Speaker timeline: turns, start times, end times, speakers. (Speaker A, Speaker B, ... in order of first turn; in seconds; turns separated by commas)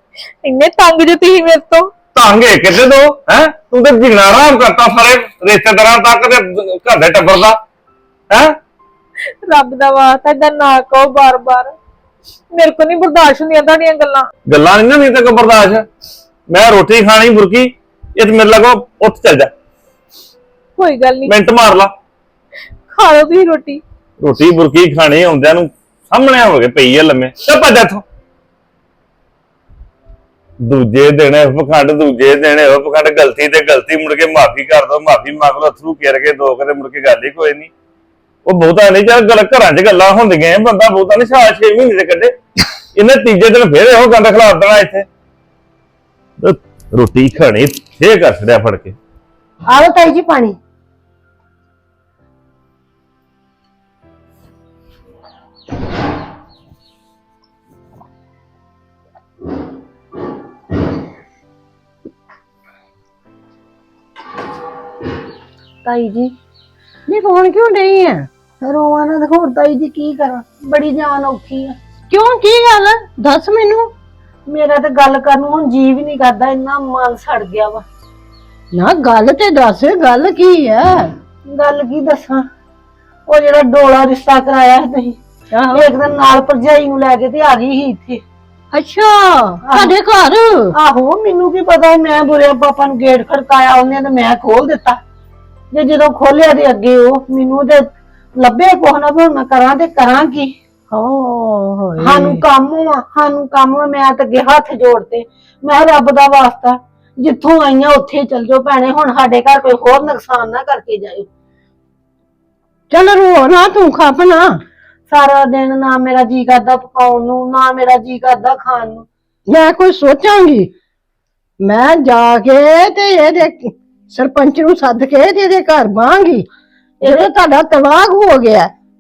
Speaker A: 0.4-1.9, Speaker B: 2.1-7.6, Speaker B: 8.3-8.6, Speaker A: 9.5-11.7, Speaker A: 12.5-14.3, Speaker B: 14.5-15.9, Speaker B: 16.5-19.5, Speaker A: 20.8-21.3, Speaker B: 21.3-21.9, Speaker A: 23.0-23.8, Speaker B: 24.2-28.0, Speaker B: 30.6-37.7, Speaker B: 38.5-42.4, Speaker B: 43.0-45.1, Speaker B: 46.4-49.0, Speaker C: 49.7-50.6, Speaker C: 65.8-66.3, Speaker D: 67.1-68.3, Speaker C: 68.6-71.8, Speaker D: 72.1-73.9, Speaker C: 74.5-77.8, Speaker D: 78.7-81.1, Speaker C: 81.5-82.4, Speaker C: 83.3-85.2, Speaker D: 85.5-85.8, Speaker C: 85.7-88.2, Speaker D: 88.7-90.7, Speaker C: 89.7-90.0, Speaker C: 90.7-95.0, Speaker C: 95.7-97.9, Speaker C: 98.4-100.5, Speaker D: 100.9-102.4, Speaker C: 102.0-111.3, Speaker D: 112.9-114.6, Speaker C: 115.1-119.1, Speaker D: 119.5-120.7, Speaker D: 121.6-126.5, Speaker D: 127.0-128.7